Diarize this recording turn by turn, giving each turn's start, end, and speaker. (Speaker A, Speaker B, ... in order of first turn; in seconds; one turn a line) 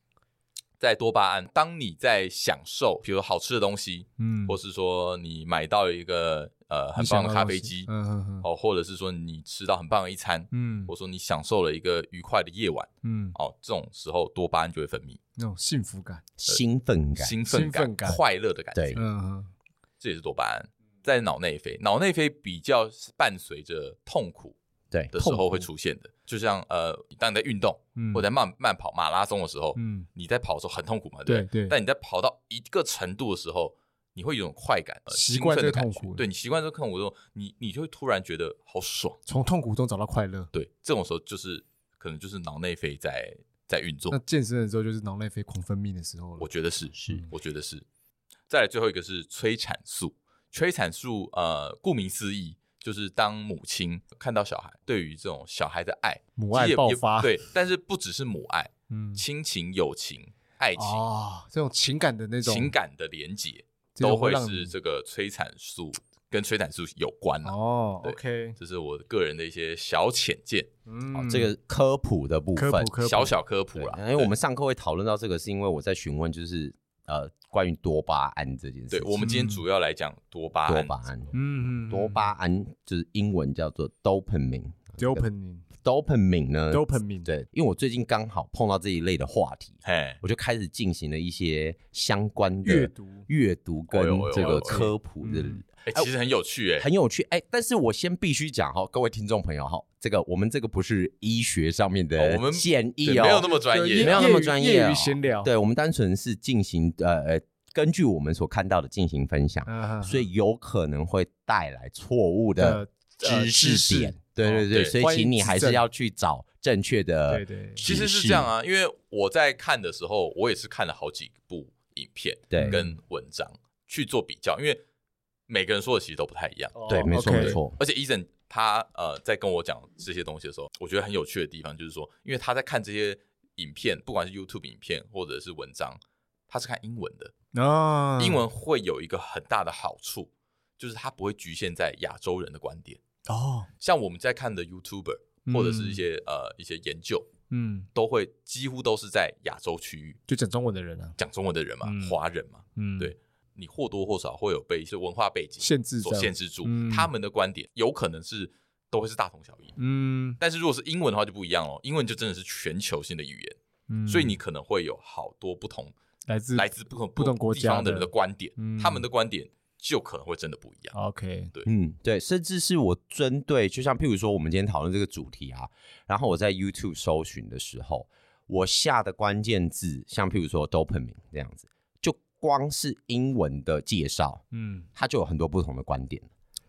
Speaker A: 0.8-7.9
Speaker B: 4.2-4.5
Speaker B: 7.0-8.4
Speaker A: 8.4-15.2
Speaker B: 10.5-10.9
Speaker B: 13.0-13.3
Speaker B: 15.4-16.2
Speaker C: 16.4-17.4
Speaker A: 17.2-19.0
Speaker B: 17.5-18.2
Speaker C: 18.7-19.0
Speaker B: 18.9-19.5
Speaker A: 20.0-24.5
Speaker A: 25.1-39.2
Speaker B: 25.2-25.6
Speaker B: 27.9-28.2
Speaker B: 29.7-30.1
Speaker B: 31.2-31.8
Speaker B: 35.1-36.2
Speaker B: 39.2-40.5
Speaker A: 40.5-44.2
Speaker B: 44.1-46.5
Speaker A: 46.4-47.8
Speaker C: 46.9-47.3
Speaker A: 48.5-61.0
Speaker B: 56.4-57.4
Speaker B: 58.9-59.2
Speaker B: 60.8-62.7
Speaker A: 62.4-70.7
Speaker B: 64.0-64.7
Speaker B: 67.4-68.5
Speaker B: 70.9-71.5
Speaker C: 71.1-73.0
Speaker B: 72.5-73.3
Speaker A: 73.0-74.3
Speaker C: 73.7-79.3
Speaker A: 78.9-80.9
Speaker B: 79.2-79.6
Speaker C: 80.7-81.3
Speaker B: 81.3-82.3
Speaker C: 81.9-85.2
Speaker B: 85.0-85.7
Speaker C: 85.8-96.1
Speaker B: 86.7-87.3
Speaker A: 89.8-90.2
Speaker B: 92.7-93.3
Speaker A: 93.9-94.8
Speaker B: 94.6-95.6
Speaker A: 95.8-96.9
Speaker C: 96.8-118.5
Speaker A: 102.2-104.4
Speaker B: 103.4-105.5
Speaker B: 109.7-110.2
Speaker B: 112.6-115.8
Speaker B: 117.3-117.8
Speaker A: 117.8-124.8
Speaker C: 122.5-122.8
Speaker B: 122.6-122.8
Speaker A: 125.5-137.3
Speaker B: 126.8-127.6
Speaker C: 126.9-127.8
Speaker B: 137.5-138.4
Speaker A: 138.2-143.0
Speaker B: 143.3-143.7
Speaker A: 143.8-147.3
Speaker B: 145.4-146.0
Speaker B: 147.5-147.9
Speaker A: 147.9-150.2
Speaker B: 150.3-151.2
Speaker A: 151.2-159.7
Speaker B: 151.8-152.2
Speaker B: 152.8-153.1
Speaker B: 155.6-157.1
Speaker B: 159.8-160.4
Speaker A: 160.4-163.6
Speaker B: 163.9-164.4
Speaker A: 164.1-165.9
Speaker B: 166.3-169.1
Speaker A: 166.5-170.9
Speaker B: 170.9-171.5
Speaker C: 171.7-184.4
Speaker B: 184.5-184.9
Speaker C: 184.9-186.3